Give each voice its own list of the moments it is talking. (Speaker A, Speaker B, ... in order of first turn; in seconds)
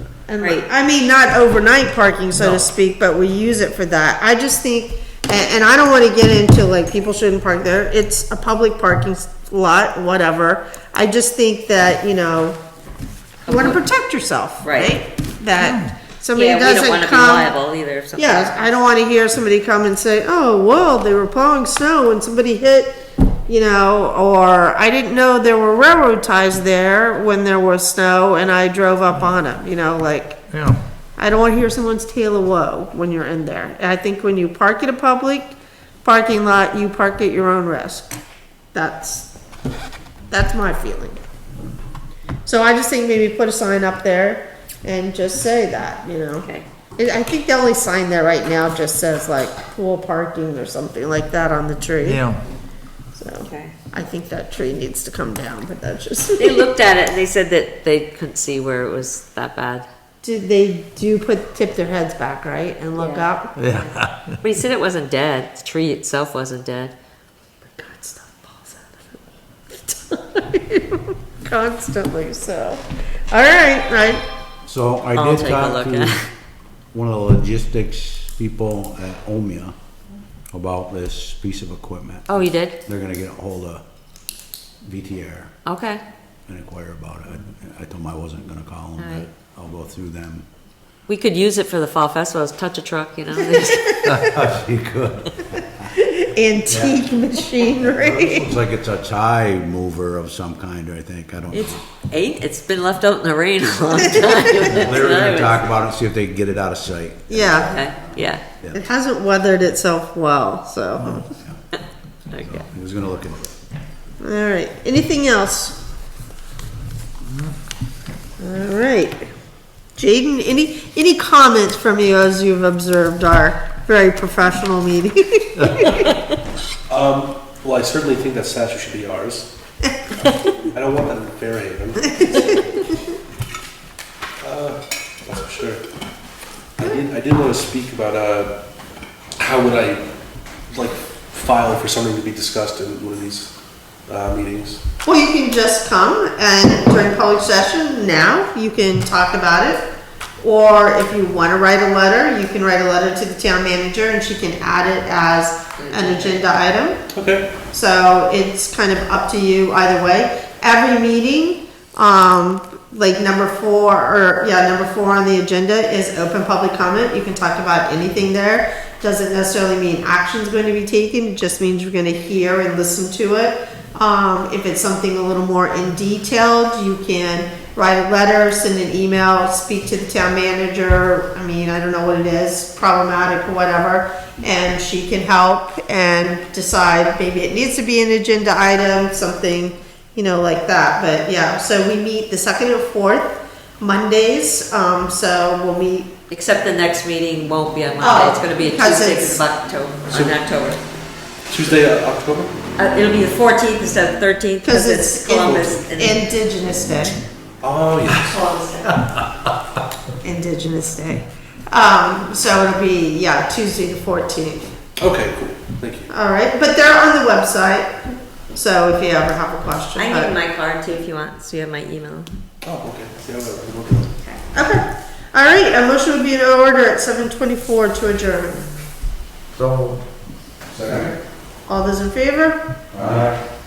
Speaker A: 0.3-12.6, 13.5-17.5, 18.1-30.4, 31.2-38.1, 38.7-39.3, 40.3-41.2, 42.4-52.2, 53.1-56.7, 60.2-63.5, 67.7-69.2, 69.7-74.2, 93.4-94.4, 95.6-98.5, 101.5-101.8, 107.3-107.7, 108.7-111.3, 114.2-115.8, 118.4-119.3, 120.0-126.1, 132.0-133.1, 145.0-149.9, 150.4-157.0, 157.7-196.1, 198.0-199.4, 204.6-207.2, 210.2-214.7, 216.1-220.3, 224.5-228.7, 231.7-232.6
Speaker B: 13.5-13.8, 14.6-14.9, 16.3-18.6, 46.4-46.7, 53.4-53.7, 56.4-59.9, 63.0-66.9, 75.2-76.3, 82.3-82.8, 85.7-86.0, 89.0-89.3, 91.1-93.9, 102.1-105.7, 107.6-108.4, 112.3-112.6, 155.8-156.4, 196.3-200.8, 202.8-206.2, 208.3-209.1, 219.9-222.3
Speaker C: 15.6-15.9, 30.5-30.8, 52.0-52.4, 63.6-64.4, 229.6-230.0
Speaker D: 74.7-76.2, 76.9-79.7, 80.5-83.8, 84.8-85.5, 86.5-90.5, 94.0-95.8, 96.7-97.0, 97.7-101.8, 104.5-108.8, 112.3-113.5, 230.7-231.1, 232.9-233.3
Speaker E: 126.9-129.5, 130.7-133.0, 134.4-135.8, 136.8-138.5, 139.4-140.1, 140.7-143.5, 144.1-144.8, 157.1-157.5, 200.1-200.3, 201.5-202.5, 205.3-205.8, 207.6-208.4, 215.0-216.1, 222.6-224.1